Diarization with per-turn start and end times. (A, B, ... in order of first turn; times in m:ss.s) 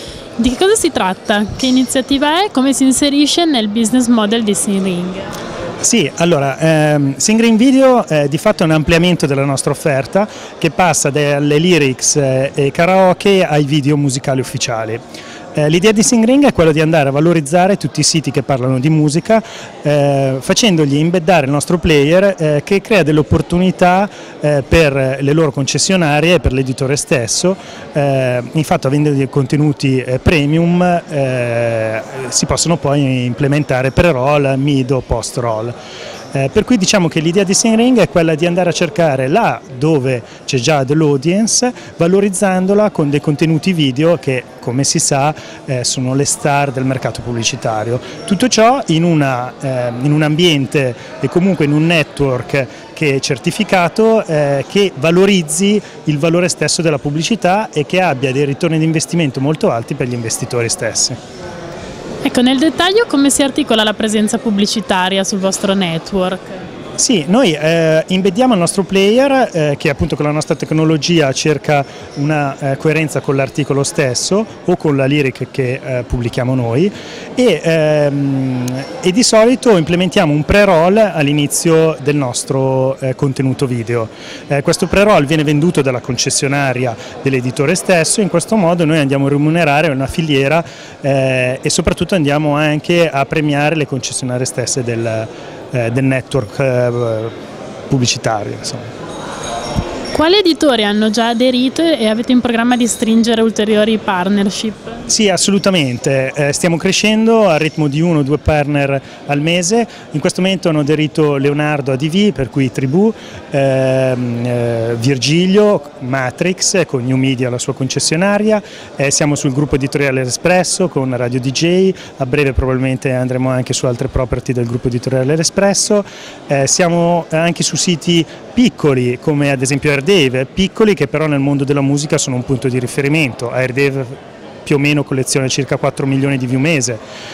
0:00.4-0:05.3 A
0:05.8-0:15.0 B
0:15.6-0:35.7 B
0:36.3-1:01.2 B
1:02.2-1:06.5 A
1:07.0-1:37.3 B
1:37.9-1:38.9 B
1:40.1-1:45.0 A
1:45.1-2:17.0 B